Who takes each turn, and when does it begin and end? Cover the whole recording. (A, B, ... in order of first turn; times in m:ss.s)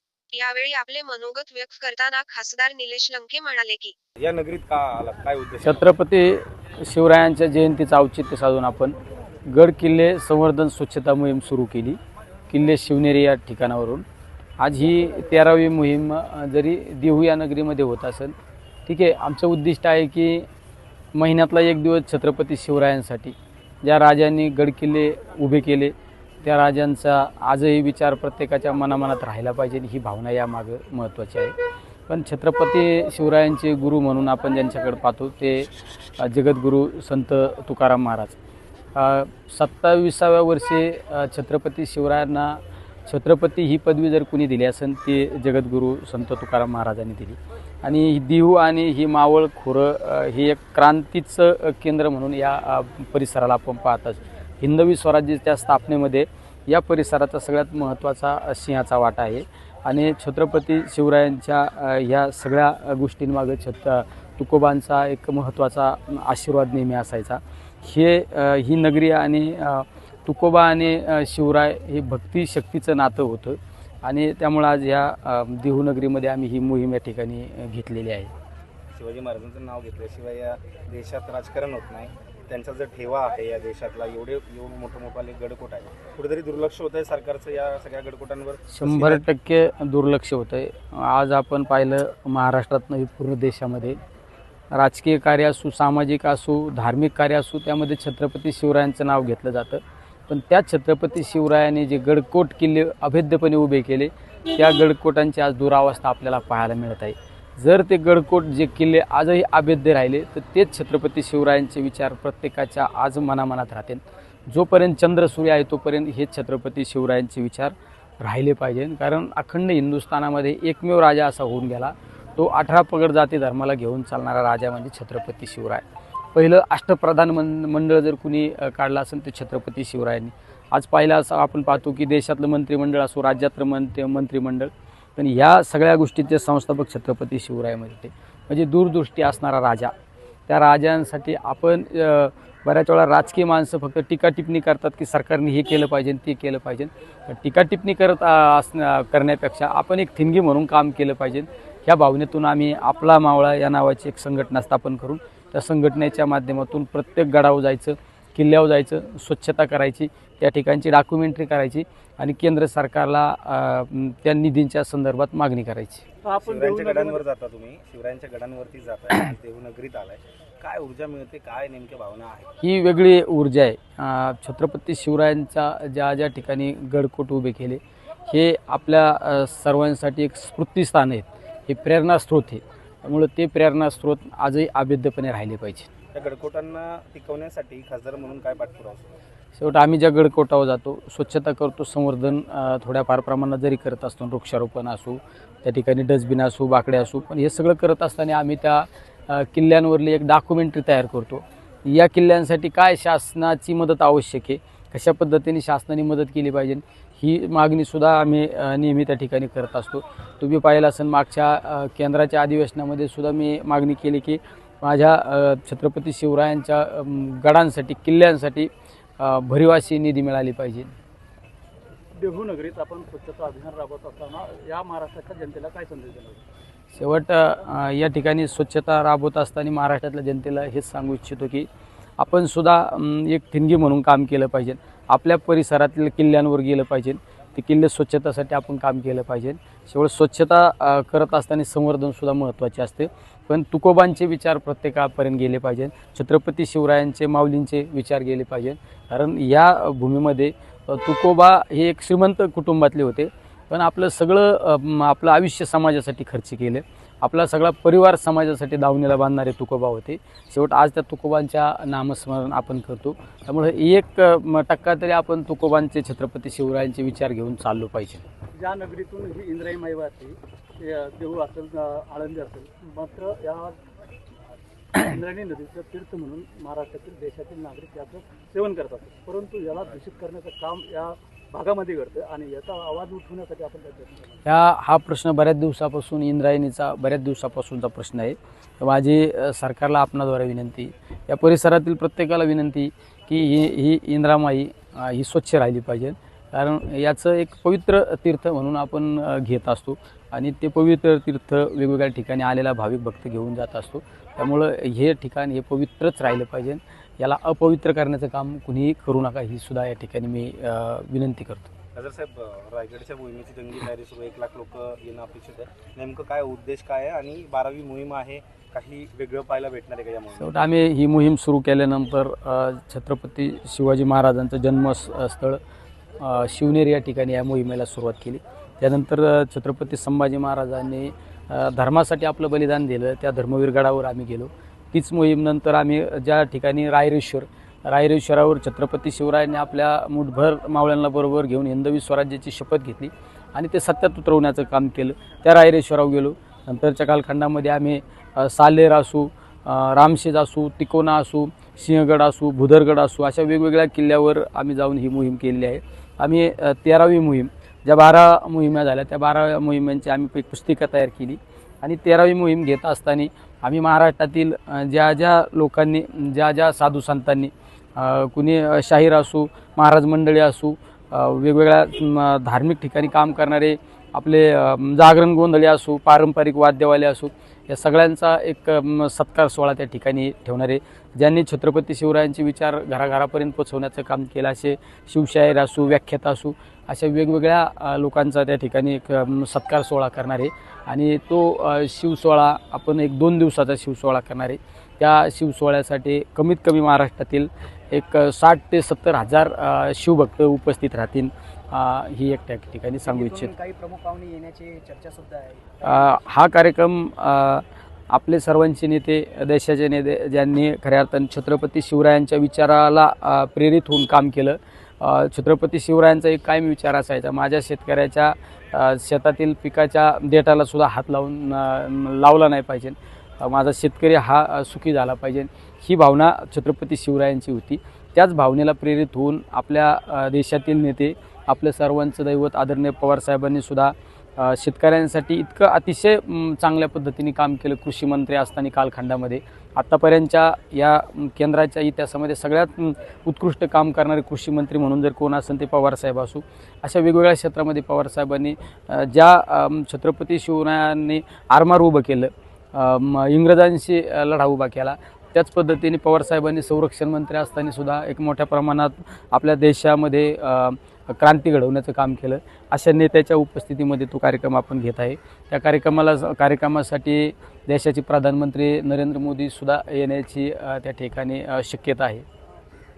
0:00.3-0:03.9 A
0:04.2-0:05.9 B
0:05.6-0:09.0 C
0:09.5-0:12.0 C
0:12.5-0:14.0 C
0:14.6-0:18.3 C
0:18.8-0:20.5 C
0:21.1-0:31.5 C
0:32.1-0:38.4 C
0:38.9-1:18.3 C
1:18.9-1:29.2 B
1:28.7-1:34.0 C
1:34.7-2:19.9 C
2:20.5-2:46.0 C
2:46.2-2:47.2 D
2:46.4-2:52.5 B
2:52.6-3:05.9 C
3:06.1-3:09.2 B
3:09.6-3:40.9 C
3:42.2-3:46.4 D
3:46.9-3:51.7 C
3:52.2-4:28.2 C
4:28.6-4:33.8 D
4:34.9-4:44.3 D
4:44.4-5:11.7 C
5:11.9-5:20.5 B
5:20.4-5:25.6 C
5:26.2-6:43.6 C
6:43.0-6:46.1 E
6:45.8-7:52.2 C